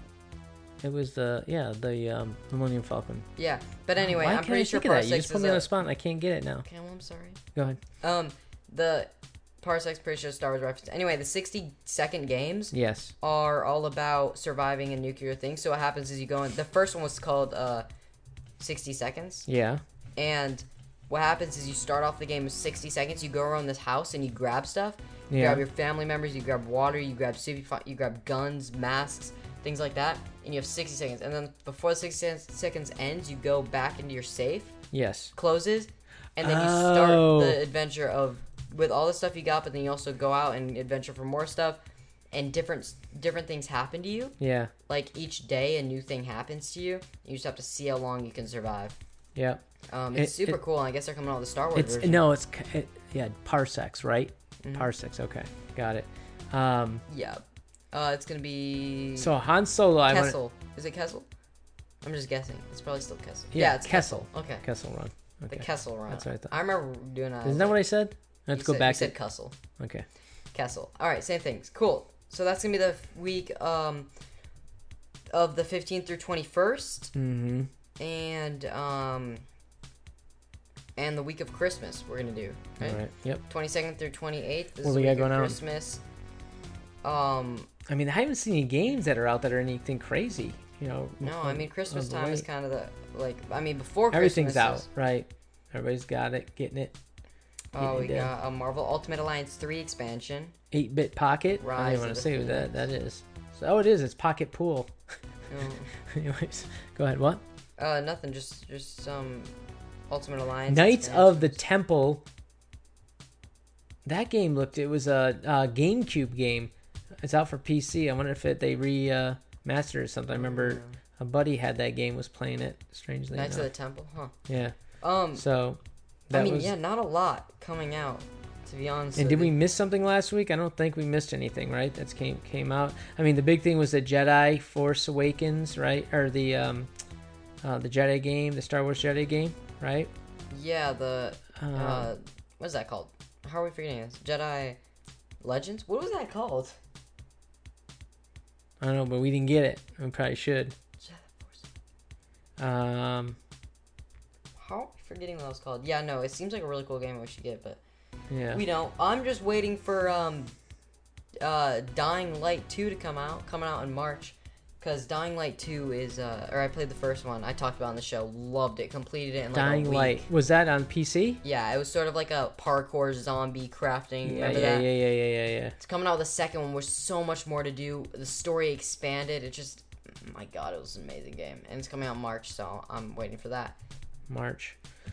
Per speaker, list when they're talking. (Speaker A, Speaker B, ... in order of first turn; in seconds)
Speaker A: 0.8-3.3, 4.0-6.7, 7.5-7.8, 12.7-13.1, 19.5-19.8, 25.3-25.6, 34.9-35.3, 36.4-37.6, 44.4-44.7, 49.4-49.6, 50.1-50.6, 51.8-57.0, 59.2-60.4, 63.5-66.5, 67.4-69.1, 69.8-70.0, 77.1-77.7, 82.8-83.4, 84.8-85.6, 87.9-92.4, 94.1-96.9, 97.8-98.3, 100.7-104.9, 106.1-107.4, 110.7-112.2, 114.0-116.7, 117.2-123.7, 124.5-124.8, 125.4-126.7, 129.2-136.9, 137.6-140.1, 141.6-142.1, 148.8-150.8, 152.6-153.4, 158.3-158.6, 169.5-171.4, 174.2-175.8, 184.3-184.8
Speaker B: 3.4-5.7, 6.6-7.4, 8.0-17.9, 18.6-19.5, 20.2-34.8, 35.3-41.8, 42.3-49.0, 49.9-52.2, 54.6-54.9, 57.1-59.3, 60.1-61.3, 62.0-64.6, 65.5-67.8, 68.5-69.5, 70.5-74.1, 75.3-77.1, 78.0-79.4, 81.0-86.0, 87.0-87.7, 91.2-94.9, 97.7-100.5, 101.6-102.8, 105.5-105.9, 107.8-109.5, 110.1-111.6, 120.3-120.9, 123.3-124.3, 125.0-125.4, 126.3-129.5, 140.5-144.8, 145.4-146.8, 151.0-151.6, 154.6-157.8, 158.5-160.6, 161.4-170.3, 171.4-174.9, 175.8-183.8